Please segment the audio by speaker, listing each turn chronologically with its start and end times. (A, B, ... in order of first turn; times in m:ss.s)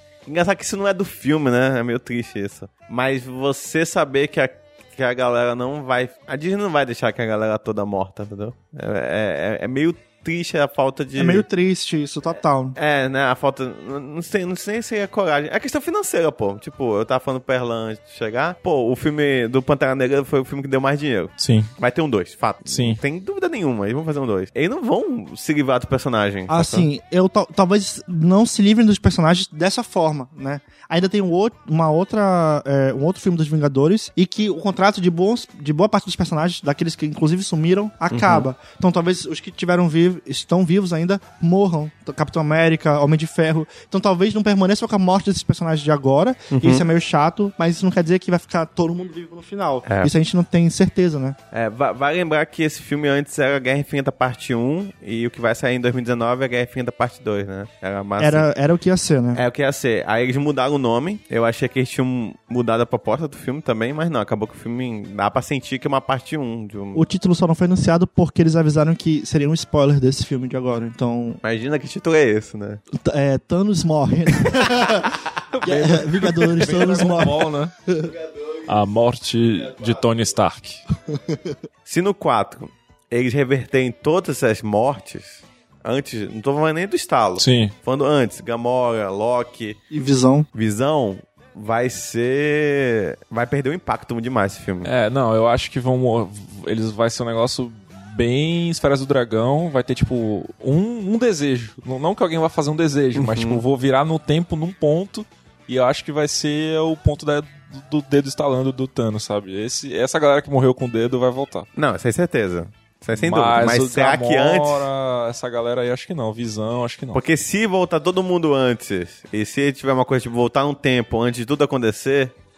0:00.2-0:11.4 A
0:11.2-0:12.8 B
0:12.7-0:26.9 A
0:21.4-0:21.7 C
0:22.6-0:23.0 C
0:26.5-0:51.4 B
0:38.1-0:38.5 A
0:46.5-0:46.8 A
0:49.8-0:50.1 A
0:51.5-0:58.5 A
0:58.2-0:59.4 B
0:59.3-1:07.0 A
1:06.9-1:11.4 B
1:11.4-1:12.8 A
1:12.9-1:18.1 B
1:14.4-1:15.3 A
1:15.5-1:17.7 C
1:18.6-1:20.8 C
1:21.8-1:29.8 A
1:27.4-1:27.7 C
1:29.9-1:30.5 B
1:30.5-1:34.9 A
1:34.8-1:51.7 C
1:43.1-1:43.6 A
1:51.8-1:54.9 A
1:53.1-1:57.2 C
1:57.1-2:02.3 A